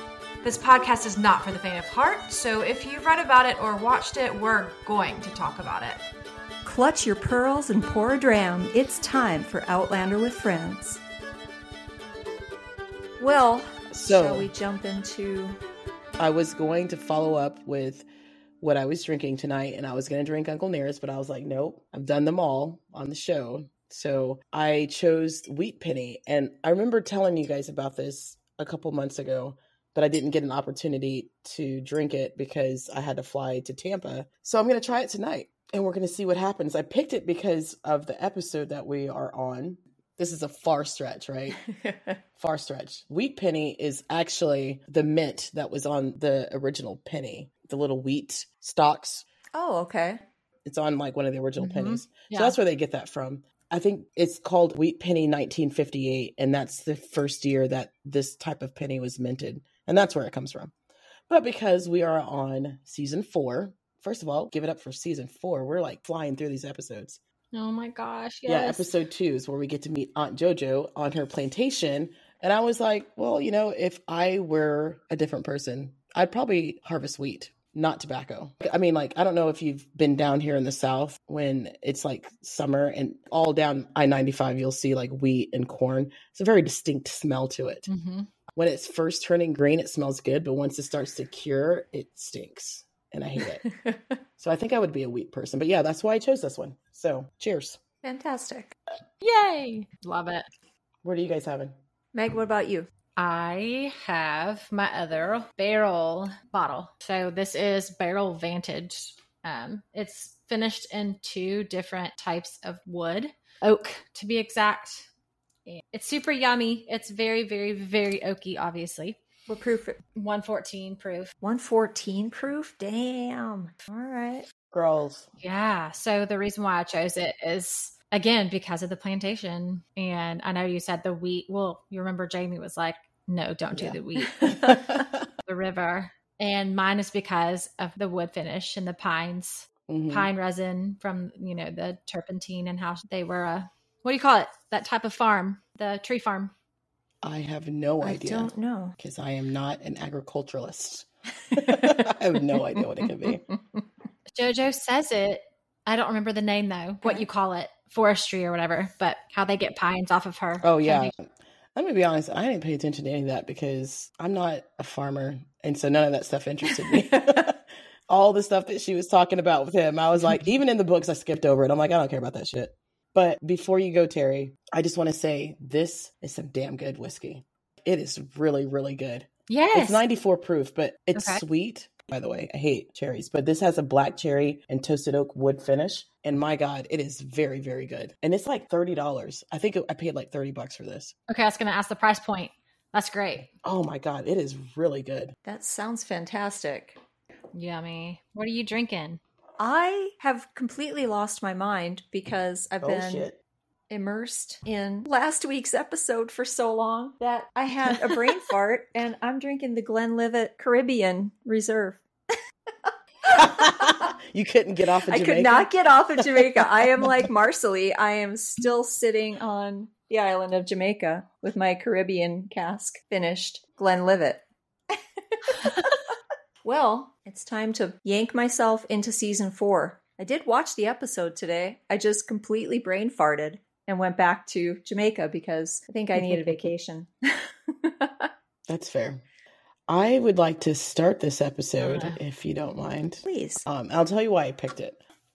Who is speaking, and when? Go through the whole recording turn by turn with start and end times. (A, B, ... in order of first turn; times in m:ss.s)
0:00.4-0:06.0 A
0:06.6-0:11.0 B
0:13.2-0:15.6 B
0:13.9-0:14.5 C
0:16.2-0:18.0 C
0:18.6-0:41.6 C
0:41.7-0:42.2 B
0:42.4-0:49.2 C
0:49.6-0:50.2 B
0:50.6-1:00.7 C
0:51.6-0:52.6 A
1:01.3-1:07.2 C
1:07.5-1:08.9 A
1:08.5-1:27.9 C
1:27.9-1:28.3 A
1:28.5-1:33.6 C
1:33.7-1:34.0 B
1:34.4-1:37.8 C
1:38.0-1:38.7 B
1:39.2-1:40.5 A
1:41.0-1:41.7 C
1:42.1-1:42.9 B
1:43.2-1:55.1 A
1:55.7-1:59.2 A
1:59.5-2:00.0 B
2:00.2-2:01.3 A
2:01.4-2:04.5 B
2:04.7-2:05.3 C
2:05.4-2:14.9 A
2:13.7-2:15.2 C
2:15.4-2:26.5 A
2:19.9-2:20.3 C
2:27.2-2:33.4 C
2:28.0-2:29.0 B
2:31.5-2:32.1 B
2:34.3-2:41.1 A
2:40.6-3:11.1 C
2:59.5-3:00.0 A
3:01.2-3:01.4 A
3:11.3-3:13.5 A
3:13.6-3:15.3 C
3:15.4-3:17.0 B
3:17.5-3:19.2 A
3:19.6-3:23.3 B
3:22.8-3:23.4 C
3:23.9-3:32.0 B
3:33.2-3:34.1 B
3:33.3-3:37.3 C
3:35.1-3:44.4 B
3:44.9-3:45.9 B
3:46.6-3:58.3 B
3:58.7-3:59.2 C
3:59.9-4:05.0 C
4:01.8-4:02.2 A
4:03.2-4:03.7 B